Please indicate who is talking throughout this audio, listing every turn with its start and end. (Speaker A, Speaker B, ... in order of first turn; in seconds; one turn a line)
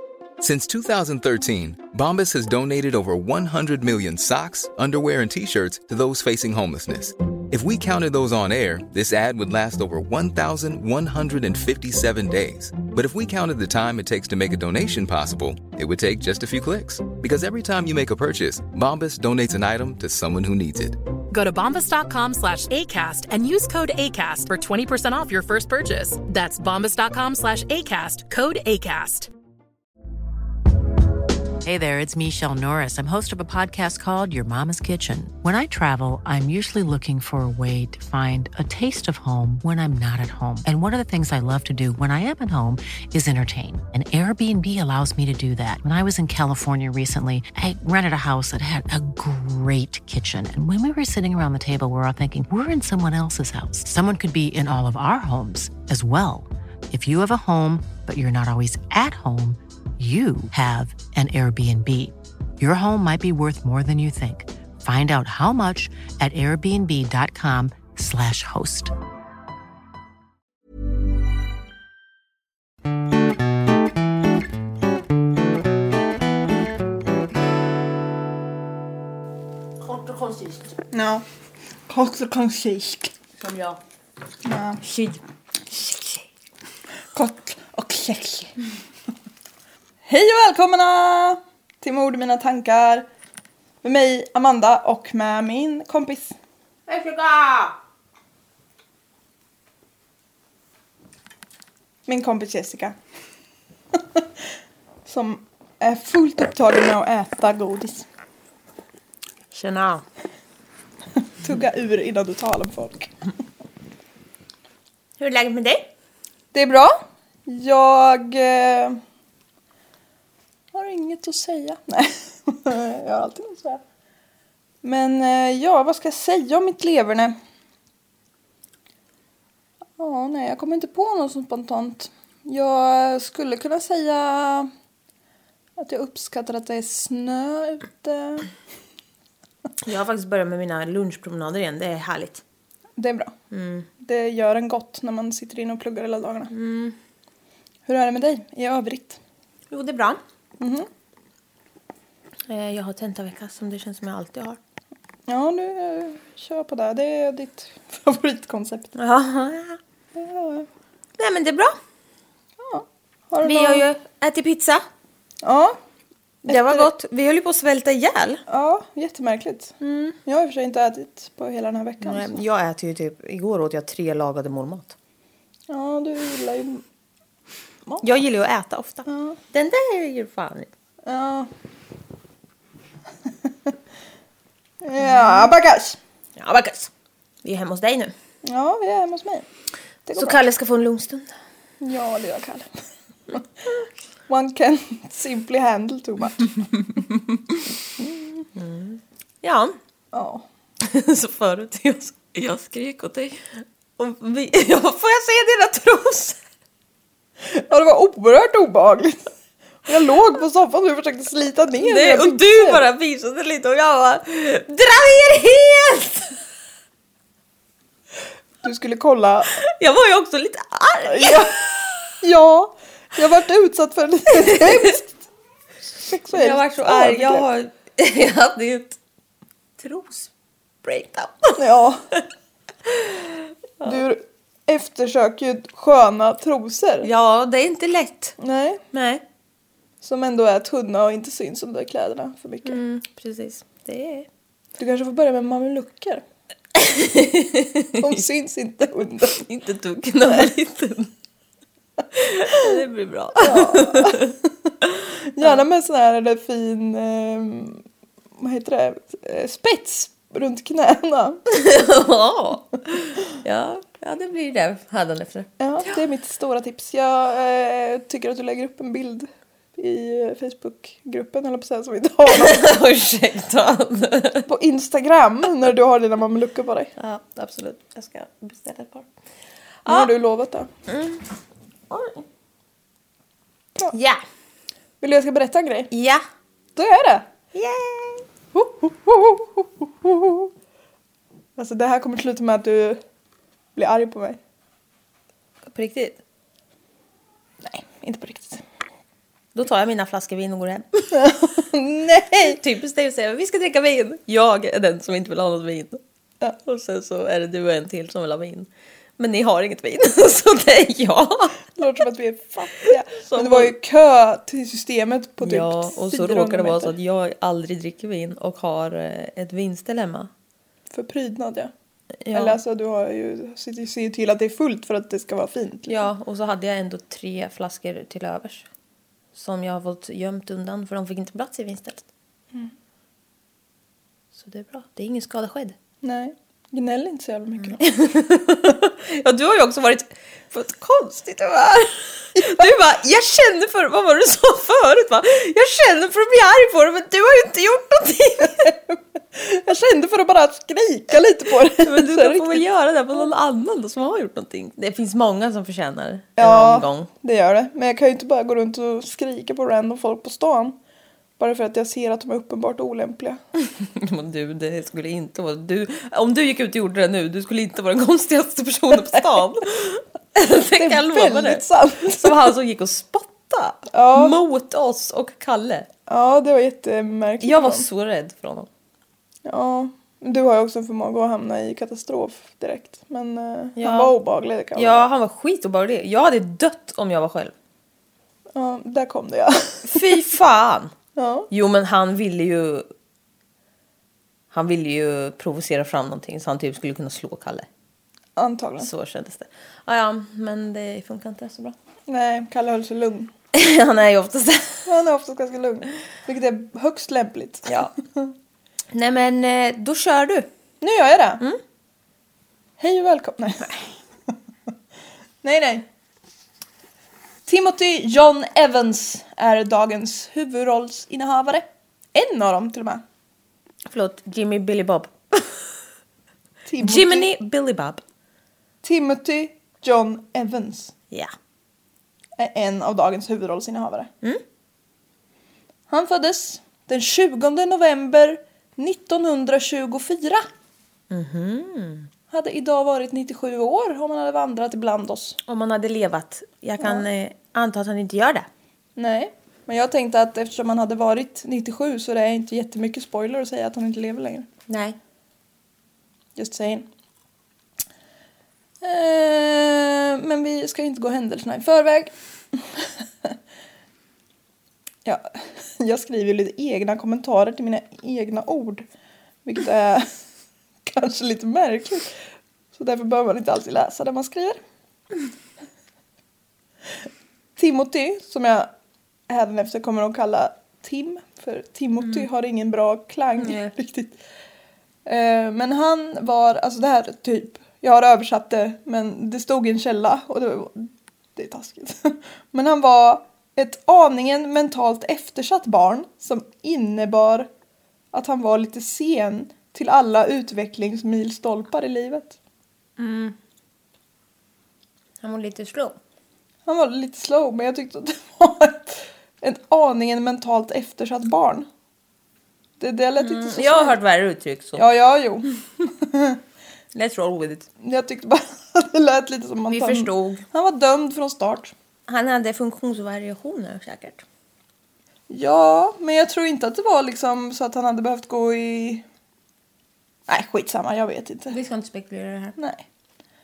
Speaker A: 0.4-21.0
Speaker B: 21.3-29.3
Speaker C: 31.6-68.9
Speaker D: 79.8-80.7
Speaker E: 80.9-81.2
Speaker E: 81.9-83.1
Speaker D: 83.4-83.8
Speaker E: 84.5-84.8
Speaker D: 84.8-85.2
Speaker D: 85.7-86.2
Speaker E: 87.1-88.5
Speaker E: 90.0-93.1
Speaker E: 93.8-96.3
Speaker D: 96.9-97.8
Speaker E: 102.1-103.0
Speaker E: 104.0-104.2
Speaker E: 105.1-108.1
Speaker D: 109.5-110.0
Speaker E: 111.4-113.1
Speaker D: 115.2-115.9
Speaker E: 116.5-119.0
Speaker E: 120.7-123.8
Speaker E: 124.8-127.4
Speaker E: 130.0-134.7
Speaker E: 135.8-138.5
Speaker D: 139.8-142.4
Speaker E: 143.0-143.3
Speaker D: 143.5-143.9
Speaker E: 144.0-146.5
Speaker D: 146.5-146.9
Speaker E: 147.9-149.2
Speaker D: 149.7-150.2
Speaker E: 150.6-150.9
Speaker D: 152.5-154.6
Speaker E: 155.3-158.9
Speaker D: 159.0-159.8
Speaker E: 160.2-160.7
Speaker D: 161.2-161.8
Speaker E: 162.6-163.8
Speaker D: 163.4-164.9
Speaker E: 165.4-165.8
Speaker E: 166.4-166.9
Speaker D: 166.5-168.4
Speaker E: 168.5-169.7
Speaker D: 169.8-170.2
Speaker E: 170.2-172.3
Speaker D: 172.0-174.9
Speaker E: 175.7-176.8
Speaker D: 178.0-180.7
Speaker E: 179.1-179.4
Speaker E: 181.1-181.5
Speaker E: 183.3-183.7
Speaker E: 184.8-186.0
Speaker D: 185.0-185.5
Speaker D: 186.4-186.9
Speaker D: 187.4-188.1
Speaker E: 188.4-189.5
Speaker E: 190.1-190.4
Speaker D: 190.2-191.3
Speaker E: 191.8-192.7
Speaker E: 194.3-197.0
Speaker D: 198.6-199.8
Speaker E: 200.1-200.4
Speaker D: 200.8-206.4
Speaker E: 207.4-209.3
Speaker E: 209.9-212.8
Speaker D: 211.8-216.4
Speaker E: 218.6-219.5
Speaker D: 219.6-221.9
Speaker E: 221.1-221.6
Speaker E: 222.2-225.2
Speaker D: 224.4-224.9
Speaker E: 226.0-227.5
Speaker D: 226.3-229.0
Speaker D: 229.8-230.3
Speaker D: 230.8-231.6
Speaker E: 231.6-232.1
Speaker D: 232.9-233.3
Speaker E: 233.8-237.1
Speaker D: 237.0-238.4
Speaker E: 238.4-238.8
Speaker D: 238.9-239.2
Speaker E: 240.0-242.8
Speaker D: 242.7-244.3
Speaker E: 244.8-246.2
Speaker D: 246.8-248.2
Speaker E: 248.0-249.4
Speaker D: 249.3-251.1
Speaker D: 252.1-254.3
Speaker E: 253.4-254.3
Speaker E: 255.3-257.8
Speaker E: 258.4-261.4
Speaker D: 261.5-266.0
Speaker E: 265.6-272.7
Speaker D: 272.3-274.5
Speaker E: 274.5-276.9
Speaker D: 277.0-279.1
Speaker D: 279.9-280.1
Speaker E: 279.9-280.7
Speaker D: 280.9-281.2
Speaker D: 281.9-282.2
Speaker D: 283.9-284.2
Speaker E: 285.0-285.9
Speaker D: 285.9-286.2
Speaker E: 286.8-287.3
Speaker D: 287.5-288.2
Speaker E: 288.5-290.5
Speaker E: 291.6-293.0
Speaker E: 293.8-294.4
Speaker D: 295.6-296.2
Speaker E: 297.6-298.6
Speaker D: 299.6-301.3
Speaker E: 301.1-302.6
Speaker D: 302.4-306.0
Speaker D: 306.7-311.6
Speaker E: 311.8-316.9
Speaker D: 313.1-313.8
Speaker D: 315.4-320.3
Speaker E: 320.9-321.7
Speaker D: 322.2-322.6
Speaker E: 322.3-326.1
Speaker D: 325.9-328.7
Speaker D: 329.3-332.1
Speaker D: 334.3-335.8
Speaker E: 336.0-337.8
Speaker D: 337.6-348.7
Speaker E: 342.4-342.7
Speaker E: 349.3-352.6
Speaker D: 351.7-357.1
Speaker E: 356.4-360.8
Speaker E: 361.4-363.4
Speaker D: 363.6-375.9
Speaker E: 368.9-369.4
Speaker E: 370.8-372.5
Speaker E: 373.9-374.4
Speaker E: 376.1-377.9
Speaker D: 377.4-378.7
Speaker E: 379.4-385.1
Speaker D: 383.8-384.2
Speaker D: 384.8-387.5
Speaker E: 388.5-390.2
Speaker D: 389.9-390.9
Speaker E: 391.2-391.5
Speaker D: 391.5-392.9
Speaker D: 394.5-397.7
Speaker E: 398.4-398.9
Speaker D: 398.8-401.8
Speaker E: 402.1-403.3
Speaker D: 403.5-404.9
Speaker E: 404.9-408.3
Speaker D: 408.9-410.5
Speaker E: 410.8-411.4
Speaker E: 412.8-413.8
Speaker E: 415.4-415.9
Speaker E: 417.5-423.0
Speaker D: 423.9-425.6
Speaker E: 426.7-427.3
Speaker D: 426.8-428.0
Speaker E: 428.8-430.9
Speaker E: 432.4-434.1
Speaker E: 435.9-440.4
Speaker D: 441.1-442.1
Speaker E: 442.3-445.4
Speaker D: 445.5-448.5
Speaker E: 446.8-447.1
Speaker E: 449.0-454.5
Speaker D: 454.7-455.0
Speaker E: 456.4-456.9
Speaker E: 458.8-463.4
Speaker E: 465.1-468.9
Speaker E: 469.4-470.1
Speaker E: 470.9-472.1
Speaker E: 472.7-474.6
Speaker E: 477.6-478.7
Speaker E: 479.3-484.2
Speaker D: 483.4-483.7
Speaker E: 485.1-497.5
Speaker E: 498.1-502.4
Speaker D: 503.0-503.4
Speaker D: 505.2-506.0
Speaker E: 506.7-511.7
Speaker E: 512.8-514.0
Speaker D: 513.2-514.9
Speaker E: 514.8-516.4
Speaker D: 516.9-517.7
Speaker E: 517.8-521.7
Speaker D: 519.7-520.4
Speaker D: 522.1-524.2
Speaker E: 525.3-529.0
Speaker E: 530.3-531.6
Speaker D: 531.5-532.6
Speaker E: 532.6-532.8